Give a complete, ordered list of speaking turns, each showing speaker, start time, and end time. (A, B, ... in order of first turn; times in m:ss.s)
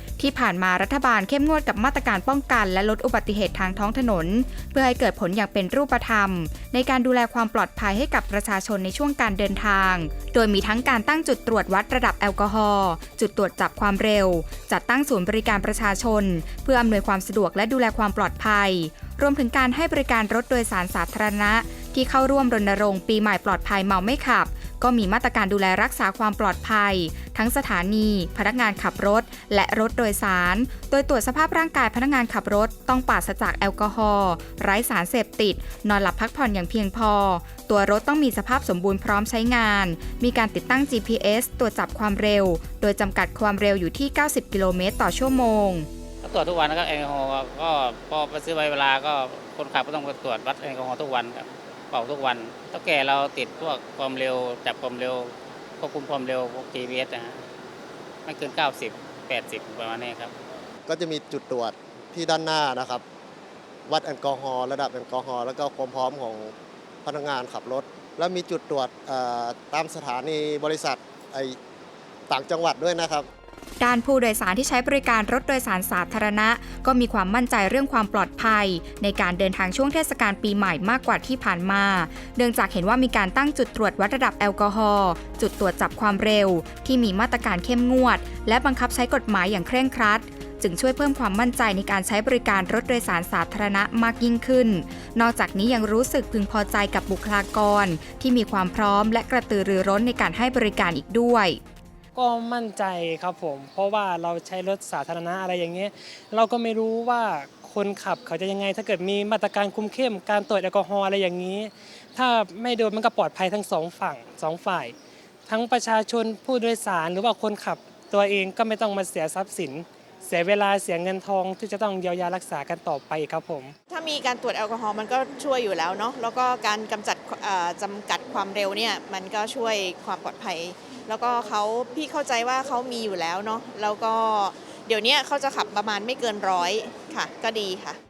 0:00.2-0:45.9 A
0:46.2-0:57.4 B
0:58.2-1:00.3 B
1:00.9-1:03.0 C
1:03.8-1:06.5 C
1:07.0-1:11.6 C
1:12.3-1:13.3 C
1:13.8-1:41.6 A
1:42.1-1:54.9 D
1:55.5-2:03.7 D
2:03.9-2:18.0 E